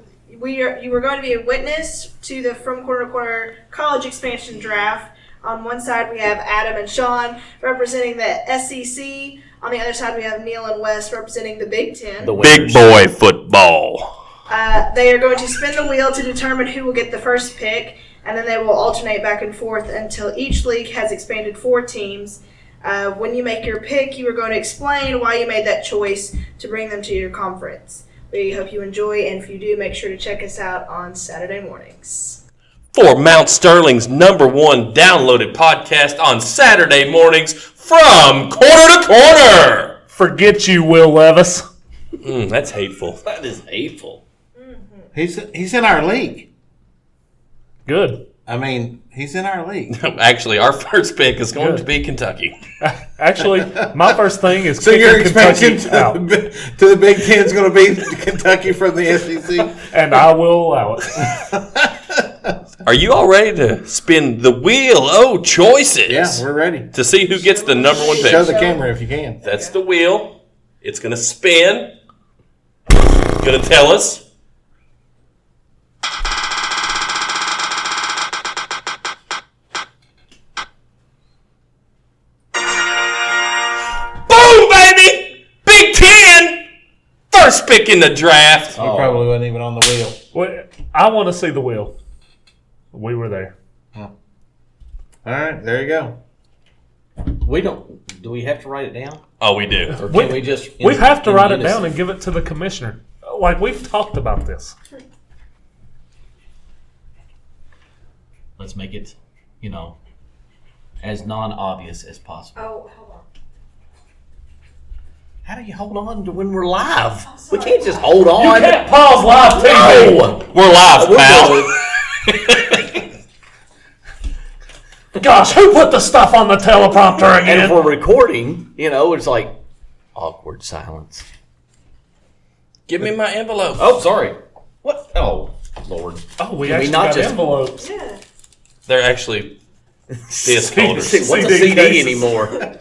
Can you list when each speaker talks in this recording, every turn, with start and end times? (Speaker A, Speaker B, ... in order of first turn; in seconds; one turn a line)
Speaker A: 0.3-12.4
Speaker B: 12.2-13.1
Speaker C: 12.4-14.2
Speaker A: 14.5-32.4
Speaker C: 32.9-40.0
Speaker D: 40.1-41.6
Speaker C: 42.2-43.2
Speaker B: 43.2-44.2
Speaker A: 44.5-45.1
Speaker E: 45.1-46.5
Speaker D: 47.9-48.2
Speaker E: 48.5-49.9
Speaker C: 49.9-52.5
Speaker D: 51.6-51.8
Speaker D: 52.8-56.2
Speaker E: 54.8-59.8
Speaker D: 59.9-61.3
Speaker E: 61.2-62.5
Speaker C: 62.8-68.6
Speaker E: 66.1-66.9
Speaker A: 67.3-68.9
Speaker E: 68.1-69.4
Speaker C: 69.4-71.9
Speaker A: 69.4-69.7
Speaker C: 73.0-74.2
Speaker C: 84.2-86.6
Speaker C: 87.3-88.8
Speaker B: 88.7-89.2
Speaker E: 88.7-90.2
Speaker D: 90.3-91.9
Speaker D: 92.9-93.5
Speaker E: 95.2-96.2
Speaker B: 97.2-99.2
Speaker C: 99.4-100.1
Speaker D: 99.9-104.7
Speaker B: 100.0-102.0
Speaker B: 108.6-110.0
Speaker B: 111.0-112.6
Speaker A: 112.5-113.2
Speaker B: 115.4-118.8
Speaker A: 117.3-118.2
Speaker D: 118.4-120.3
Speaker B: 119.6-121.8
Speaker C: 119.6-122.8
Speaker D: 125.2-127.8
Speaker B: 127.4-129.6
Speaker B: 130.1-131.2
Speaker C: 132.9-133.9
Speaker B: 133.8-137.4
Speaker D: 136.4-137.9
Speaker A: 137.8-138.2
Speaker C: 138.9-139.6
Speaker B: 140.3-142.7
Speaker C: 140.4-141.8
Speaker D: 140.7-142.3